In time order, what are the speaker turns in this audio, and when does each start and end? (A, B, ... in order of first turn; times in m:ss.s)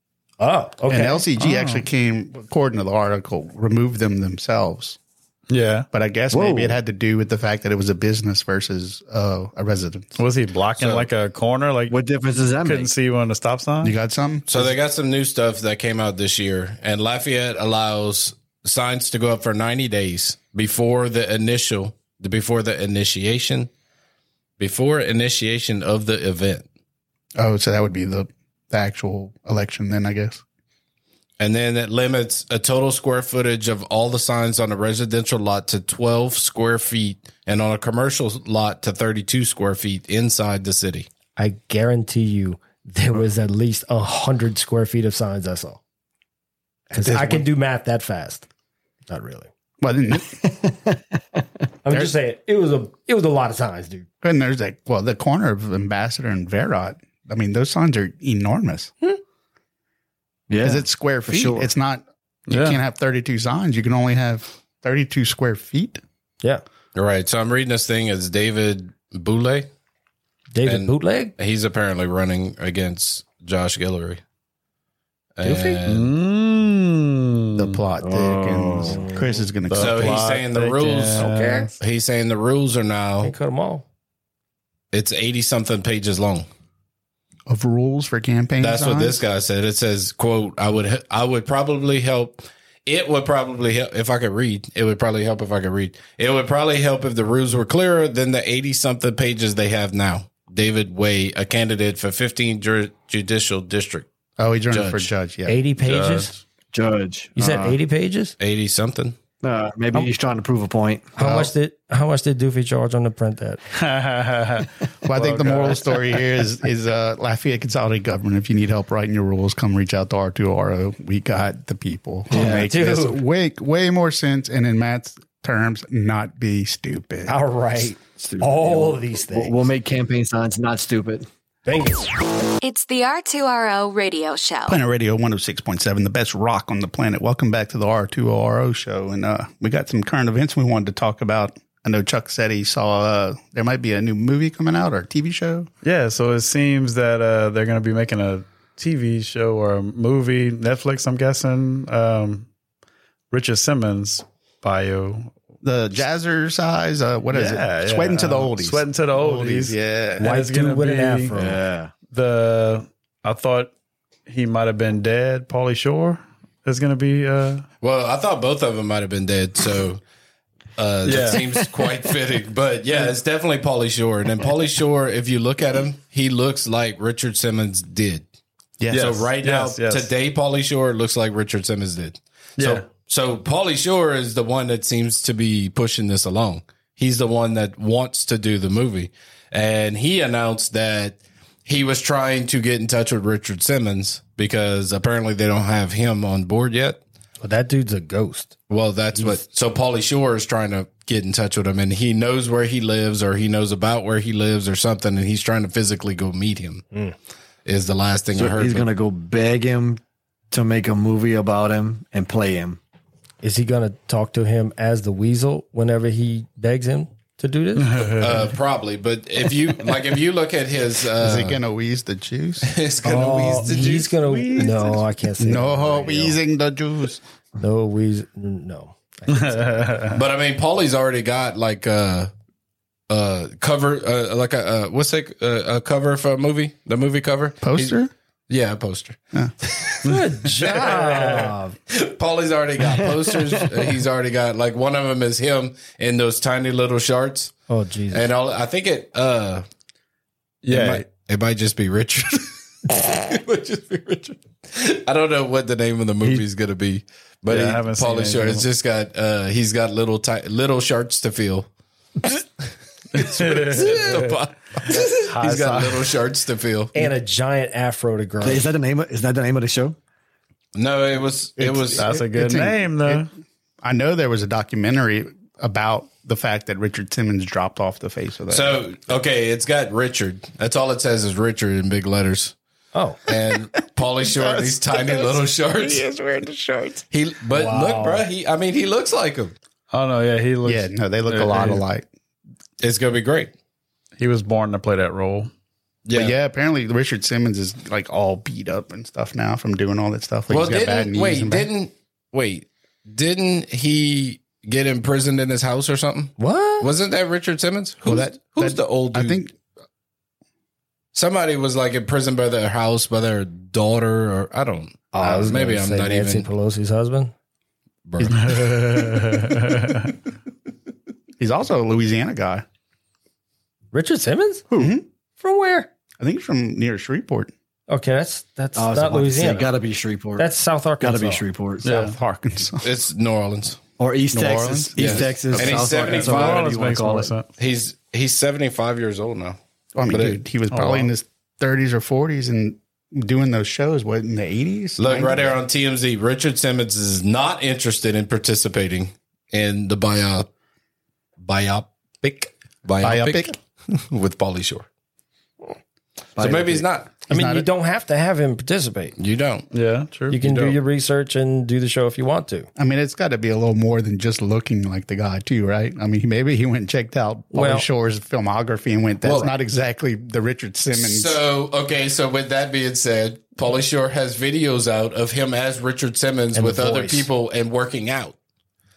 0:00.4-0:01.2 A
0:00.9-0:05.0 B
0:01.4-0:01.8 C
0:05.5-0:05.9 C
0:05.9-0:10.2 B
0:06.3-0:06.8 D
0:10.2-0:11.9 C
0:10.8-0:11.1 E
0:11.9-0:12.9 D
0:12.6-0:14.0 C
0:13.8-0:14.7 B
0:14.5-0:23.7 E
0:24.6-0:26.6 E
0:27.4-0:30.4 B
0:31.4-0:41.1 E
0:41.4-0:45.8 A
0:46.9-0:48.4 A
0:46.9-0:47.5 B
0:49.1-0:49.5 A
0:49.8-0:50.4 B
0:50.3-0:51.4 D
0:51.8-0:54.0 A
0:54.2-0:58.9 B
1:00.5-1:01.7 D
1:00.6-1:06.0 B
1:02.5-1:02.8 C
1:06.9-1:09.7 E
1:10.5-1:11.3 A
1:10.6-1:14.2 E
1:15.4-1:16.1 E
1:15.4-1:15.8 A
1:15.8-1:17.8 C
1:17.6-1:20.2 B
1:18.0-1:19.0 D
1:18.9-1:19.5 A
1:19.7-1:21.7 C
1:19.8-1:23.3 E
1:21.2-1:21.7 A
1:23.2-1:23.8 A
1:24.9-1:26.5 E
1:27.5-1:29.2 B
1:28.6-1:44.1 E
1:44.4-1:45.6 B
1:44.7-1:45.1 E
1:45.5-1:46.3 A
1:45.8-1:46.4 C
1:46.7-1:47.8 D
1:47.4-1:48.3 A
1:48.4-1:49.1 E
1:49.4-1:51.2 D
1:51.2-1:53.6 A
1:53.7-1:56.2 C
1:55.0-2:07.3 B
2:02.3-2:03.2 A
2:02.3-2:02.7 D
2:07.3-2:09.6 A
2:08.2-2:11.3 D
2:11.6-2:12.1 A
2:12.6-2:14.8 F
2:14.7-2:25.7 B
2:25.8-2:32.5 C
2:33.3-2:35.4 C
2:35.6-2:40.2 B
2:37.3-2:41.3 C
2:40.2-2:41.6 A
2:41.3-2:42.0 D
2:42.1-2:43.7 C
2:44.3-2:47.6 C
2:47.8-2:50.0 E
2:50.8-2:58.2 E
2:51.0-2:51.4 C
2:51.2-2:51.9 D
2:58.8-2:59.2 B
2:58.9-3:00.1 C
2:58.9-3:17.0 E
3:02.6-3:02.9 C
3:17.4-3:18.5 A
3:18.7-3:26.8 E
3:19.1-3:19.4 A
3:27.6-3:28.9 E
3:28.3-3:32.8 D
3:33.4-3:38.1 A
3:37.8-3:38.5 C
3:38.2-3:41.6 E
3:41.2-3:42.8 B
3:42.6-3:44.1 E
3:43.0-3:46.4 A
3:44.2-3:47.2 B
3:47.6-3:50.1 A
3:49.3-3:50.2 C
3:50.1-3:52.3 E
3:53.1-3:58.0 E
3:57.6-3:58.1 B
3:58.5-4:01.1 E
4:00.0-4:01.8 A
4:00.8-4:01.5 C
4:01.9-4:07.5 E
4:07.7-4:08.3 A
4:08.1-4:09.6 E
4:10.6-4:11.1 C
4:10.7-4:21.7 E
4:17.5-4:18.6 C
4:22.2-4:27.0 E
4:23.1-4:26.1 C
4:26.9-4:28.7 A
4:28.4-4:30.0 D
4:30.8-4:32.1 E
4:31.6-4:33.3 B
4:32.0-4:33.3 C
4:33.8-4:38.9 B
4:38.5-4:42.5 E
4:42.9-4:43.2 A
4:43.3-4:46.0 E
4:43.3-4:43.6 B
4:44.2-4:47.0 B
4:47.1-4:49.5 E
4:47.6-4:48.2 A
4:49.9-4:51.8 C
4:50.6-4:52.0 B
4:52.8-4:53.5 E
4:54.2-4:55.5 C
4:56.0-4:56.4 E
4:56.1-5:01.7 B
5:00.5-5:09.4 E
5:06.4-5:06.9 A
5:08.0-5:09.5 B
5:11.1-5:16.5 E
5:15.1-5:17.3 A
5:18.1-5:18.6 E
5:18.2-5:20.1 C
5:21.4-5:22.6 B
5:23.9-5:24.7 A
5:24.7-5:25.0 B
5:25.4-5:25.9 A
5:26.2-5:27.5 B
5:27.9-5:29.7 A
5:28.8-5:30.5 D
5:30.4-5:31.4 A
5:31.0-5:31.9 D
5:31.8-5:32.2 C
5:31.8-5:32.9 B
5:32.8-5:33.8 E
5:34.0-5:37.3 D
5:34.3-5:36.0 B
5:35.0-5:36.6 E
5:36.0-5:37.5 C
5:37.6-5:39.6 E
5:40.0-5:45.6 B
5:40.1-5:40.4 E
5:40.8-5:41.1 C
5:45.0-5:50.5 E
5:51.4-5:54.9 E
5:53.0-5:53.5 B
5:56.4-5:56.9 D
5:56.4-5:57.1 E
5:57.3-5:57.7 B
5:57.3-5:59.1 A
5:59.2-5:59.7 E
5:59.7-6:00.4 C
6:00.3-6:02.7 A
6:00.4-6:00.7 E
6:02.8-6:11.4 B
6:07.5-6:07.9 A
6:09.2-6:09.5 E
6:10.9-6:18.4 E
6:16.5-6:17.3 A